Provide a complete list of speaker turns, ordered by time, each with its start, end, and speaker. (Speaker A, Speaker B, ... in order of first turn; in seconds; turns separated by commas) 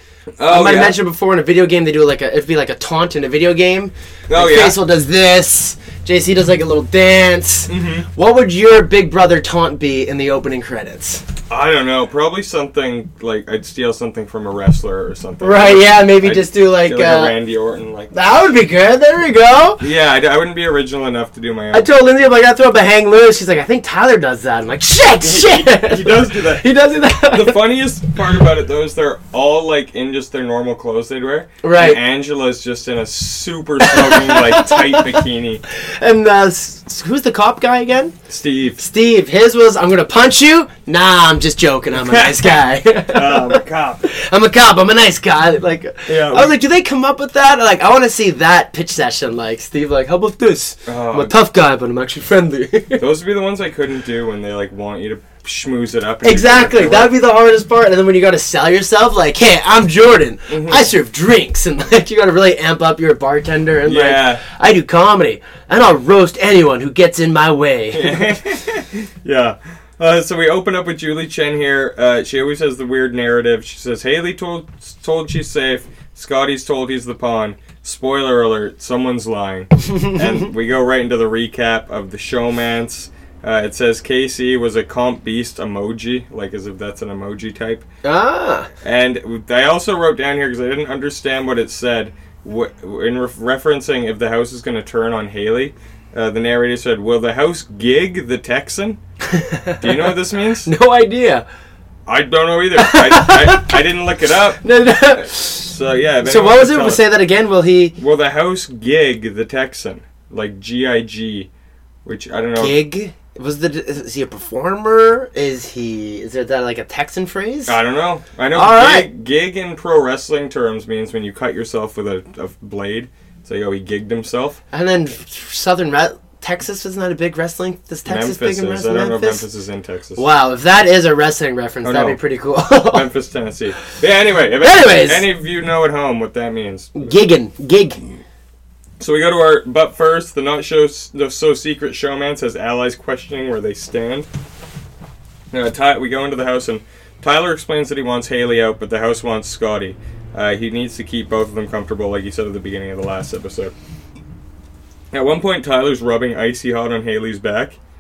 Speaker A: 0.4-1.0, Speaker B: 0.5-11.2, Speaker A: 4.3-4.8, Speaker A: 7.7-8.1, Speaker A: 11.5-18.2, Speaker B: 15.4-17.3, Speaker B: 18.1-19.8, Speaker A: 19.8-21.9, Speaker B: 21.7-27.6, Speaker A: 25.2-35.6, Speaker B: 31.6-32.0, Speaker B: 33.8-38.2, Speaker A: 38.3-38.8, Speaker B: 38.8-53.0, Speaker A: 41.9-44.1, Speaker A: 46.1-46.6, Speaker A: 50.9-51.3, Speaker A: 53.0-57.1, Speaker B: 56.2-68.4, Speaker A: 60.5-60.9, Speaker A: 63.9-64.4, Speaker A: 67.9-87.8, Speaker B: 79.8-80.5, Speaker B: 88.0-88.7, Speaker A: 88.8-99.0, Speaker B: 99.3-101.5, Speaker A: 99.8-100.7, Speaker A: 102.1-107.1, Speaker B: 102.8-103.8, Speaker B: 104.6-105.7, Speaker B: 106.2-108.0, Speaker A: 108.0-111.5, Speaker A: 112.0-112.8, Speaker B: 112.6-117.8, Speaker A: 117.7-124.6, Speaker B: 118.5-119.1, Speaker B: 124.7-129.4, Speaker A: 128.1-130.2, Speaker B: 130.2-133.1, Speaker A: 131.8-132.2, Speaker A: 132.9-137.0, Speaker B: 134.6-135.3, Speaker B: 136.9-138.0, Speaker A: 139.0-144.3, Speaker A: 145.5-153.7, Speaker A: 155.1-157.8